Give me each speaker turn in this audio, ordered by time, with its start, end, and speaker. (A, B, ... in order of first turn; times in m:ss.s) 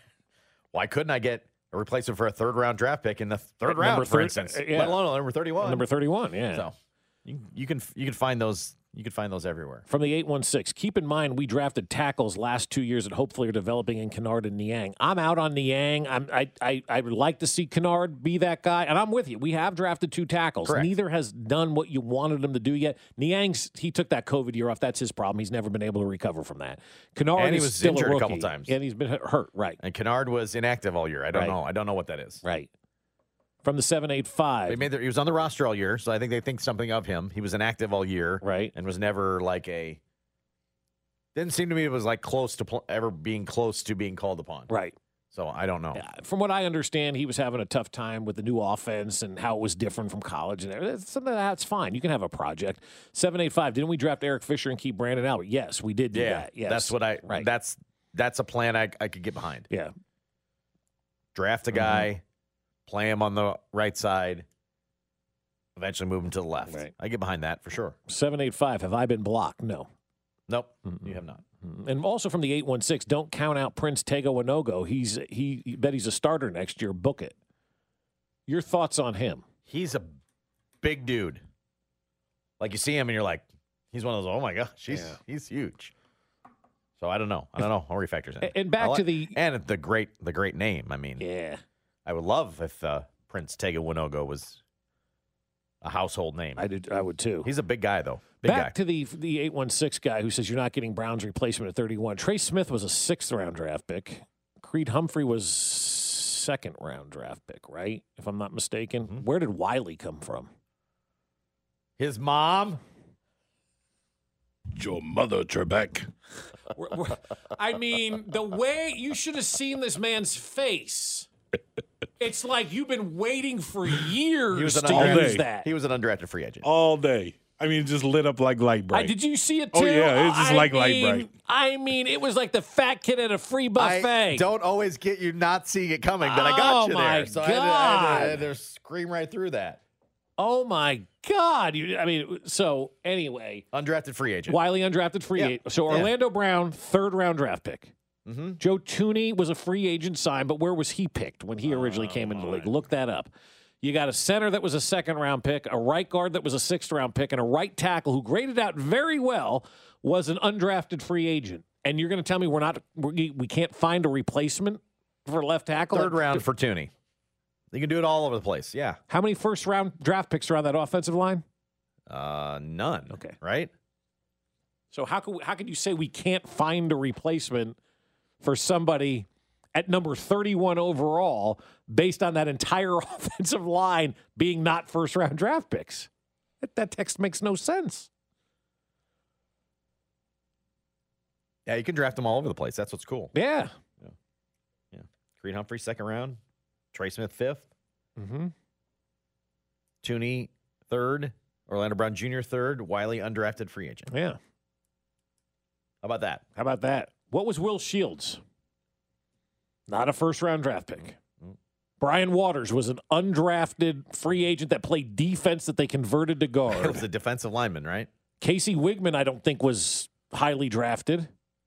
0:00.7-0:05.8 A
0:03.7-0:05.0 B
0:05.6-0:06.6 B
0:06.5-0:09.8 A
0:09.9-0:29.8 B
0:20.6-0:20.9 A
0:27.4-0:28.7 A
0:29.8-0:32.4 A
0:31.3-0:31.6 B
0:32.4-0:32.7 B
0:33.6-0:34.9 B
0:34.7-0:40.0 A
0:38.4-0:38.7 B
0:41.3-0:44.7 A
0:44.7-0:44.9 B
0:45.3-0:46.0 A
0:45.9-0:57.5 B
0:56.1-0:59.7 A
1:01.3-1:02.2 A
1:01.7-1:02.1 B
1:02.9-1:04.4 A
1:05.8-1:08.0 A
1:08.1-1:09.9 B
1:10.5-1:11.4 A
1:10.8-1:11.1 B
1:11.6-1:17.3 B
1:18.5-1:19.4 B
1:19.6-1:20.2 A
1:20.8-1:21.4 A
1:22.6-1:25.9 A
1:24.9-1:25.2 B
1:27.0-1:31.2 A
1:28.4-1:29.4 B
1:31.2-1:31.6 B
1:32.0-1:34.6 A
1:35.8-1:36.6 A
1:36.6-1:37.5 B
1:37.4-1:38.7 A
1:38.4-1:50.5 B
1:52.0-1:52.8 A
1:54.7-1:56.1 C
1:56.7-2:01.3 B
2:02.2-2:05.7 B
2:04.5-2:06.6 A
2:04.9-2:05.4 C
2:06.6-2:09.1 C
2:08.9-2:14.5 B
2:09.7-2:11.3 C
2:13.8-2:19.8 A
2:16.2-2:18.5 B
2:20.4-2:23.6 B
2:23.7-2:24.6 A
2:24.5-2:27.9 B
2:25.4-2:26.1 A
2:28.2-2:28.6 A
2:28.6-2:46.4 B
2:31.6-2:32.7 A
2:45.9-2:46.9 A
2:47.7-2:49.0 A
2:49.1-2:51.4 B
2:52.1-2:53.7 A
2:53.1-2:53.4 B
2:54.9-2:57.8 B
2:58.4-3:06.1 B
3:06.6-3:08.1 B
3:11.6-3:13.3 A
3:13.3-3:13.7 B
3:14.9-3:16.4 A
3:16.9-3:17.7 A
3:18.2-3:18.5 B
3:20.0-3:24.1 A
3:24.1-3:24.4 B
3:26.0-3:26.4 A
3:26.6-3:28.4 B
3:29.9-3:31.2 B
3:32.0-3:37.0 B
3:36.7-3:38.1 A
3:38.4-3:41.3 B